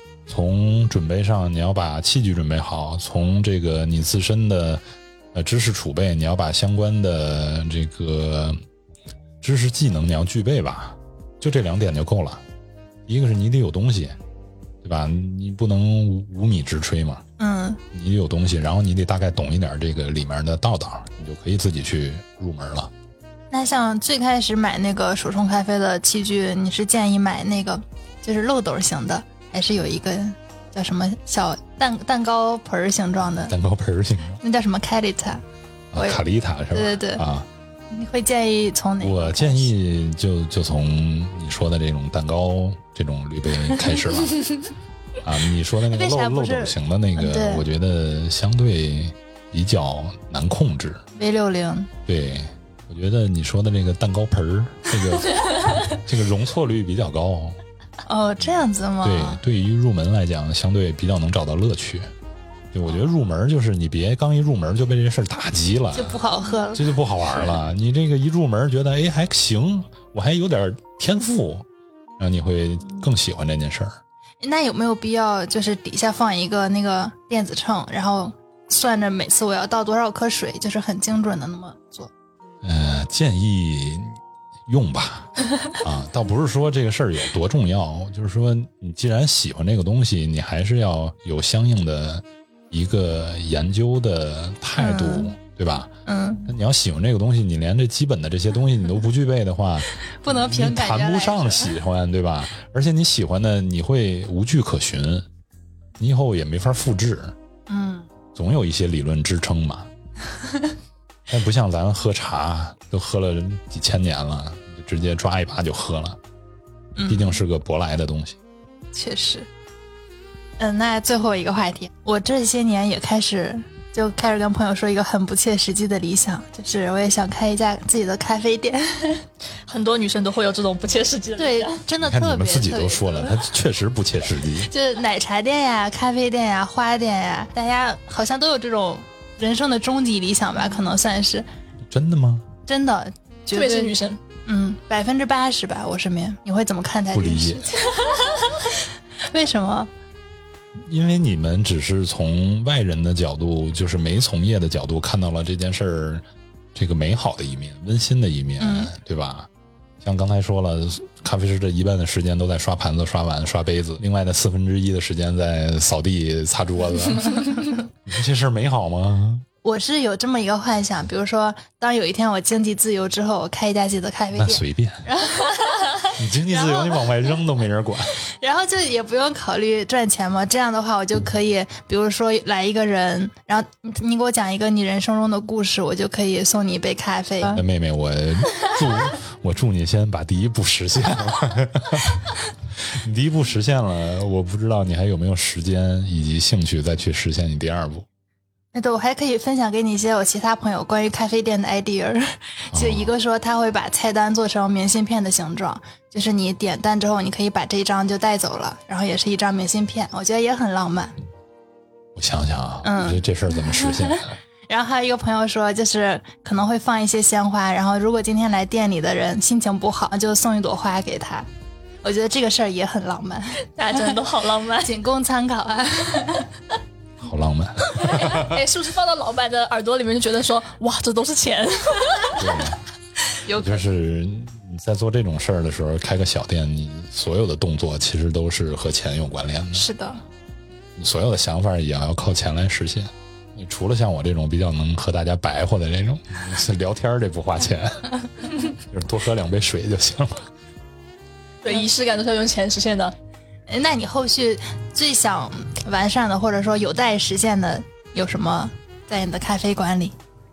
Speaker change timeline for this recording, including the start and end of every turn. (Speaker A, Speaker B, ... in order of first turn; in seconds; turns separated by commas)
Speaker A: 0.3-8.6, Speaker A: 9.4-12.4, Speaker A: 13.1-14.2, Speaker A: 14.8-17.2, Speaker B: 17.4-17.8, Speaker A: 17.9-22.9, Speaker B: 23.5-33.5, Speaker A: 33.5-34.4, Speaker B: 34.4-35.4, Speaker A: 35.9-37.5, Speaker B: 35.9-37.2, Speaker B: 37.9-39.7, Speaker A: 39.0-44.6, Speaker A: 45.2-51.0, Speaker B: 45.9-47.6, Speaker B: 51.1-51.9, Speaker A: 52.1-57.6, Speaker B: 58.0-59.4, Speaker A: 59.0-62.1, Speaker A: 62.7-71.7, Speaker B: 65.9-66.9, Speaker A: 72.2-74.0, Speaker B: 74.4-82.1, Speaker A: 82.6-95.9, Speaker B: 94.8-95.3, Speaker B: 96.0-96.5, Speaker A: 96.5-105.3, Speaker B: 100.1-101.7, Speaker A: 106.0-107.3, Speaker B: 107.7-108.1, Speaker A: 108.3-109.9, Speaker B: 110.4-110.7, Speaker A: 111.3-116.2, Speaker B: 117.0-117.4, Speaker A: 117.0-118.4, Speaker B: 118.9-119.5, Speaker B: 120.6-129.2, Speaker C: 129.7-131.8, Speaker B: 131.4-133.4, Speaker A: 132.0-134.7, Speaker B: 134.7-141.4, Speaker A: 141.9-142.5, Speaker B: 142.7-143.9, Speaker C: 143.5-144.2, Speaker B: 144.4-148.0, Speaker A: 147.1-147.7, Speaker B: 148.6-149.9, Speaker A: 150.7-156.2, Speaker A: 156.7-159.5, Speaker B: 158.6-158.9, Speaker A: 160.0-169.4, Speaker B: 169.6-177.2, Speaker A: 174.3-175.0, Speaker A: 176.1-178.2, Speaker B: 178.3-187.6, Speaker A: 187.5-198.1, Speaker B: 198.7-211.2, Speaker A: 202.7-203.1, Speaker A: 212.1-214.4, Speaker B: 212.8-221.5, Speaker B: 222.0-224.2, Speaker C: 223.7-224.9, Speaker B: 224.8-226.5, Speaker A: 227.2-228.6, Speaker C: 228.1-232.6, Speaker A: 232.3-232.8, Speaker B: 233.4-233.8, Speaker A: 233.6-239.9, Speaker B: 239.7-240.2, Speaker A: 240.9-248.2, Speaker A: 248.8-250.5, Speaker C: 251.6-253.1, Speaker B: 253.7-260.1